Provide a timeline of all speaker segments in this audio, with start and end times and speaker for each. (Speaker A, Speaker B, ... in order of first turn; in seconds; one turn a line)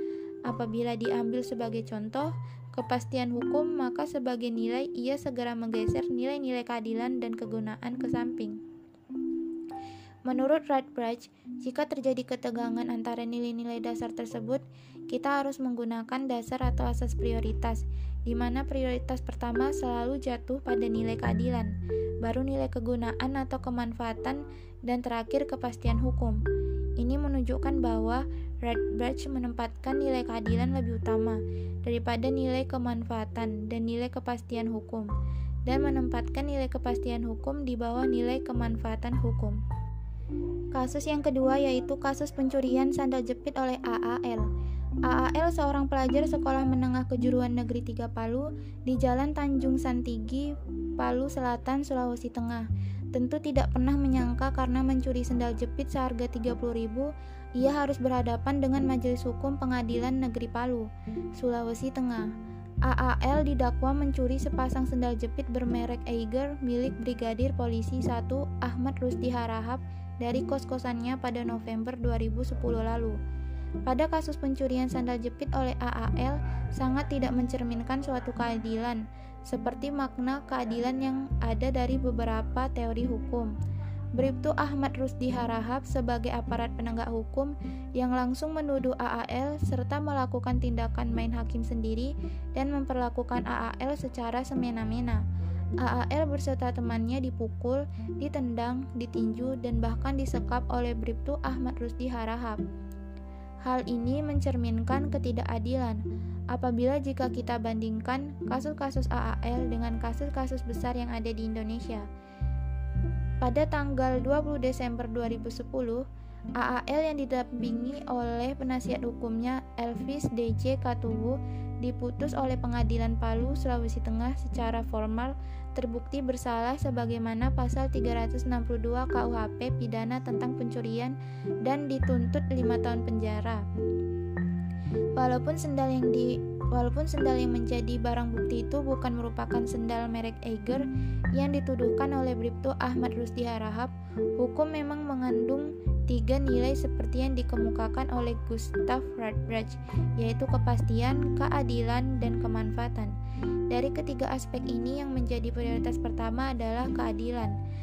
Speaker A: 0.5-8.6
Speaker A: 10.3-26.4
Speaker A: 27.0-35.1
Speaker A: 35.6-39.6
Speaker A: 40.7-44.5
Speaker A: 45.0-62.3
Speaker A: 62.9-73.2
Speaker A: 73.8-83.5
Speaker A: 84.2-95.2
Speaker A: 95.8-102.6
Speaker A: 103.6-112.1
Speaker A: 113.4-116.0
Speaker A: 116.6-133.6
Speaker A: 135.2-153.2
Speaker A: 153.7-157.6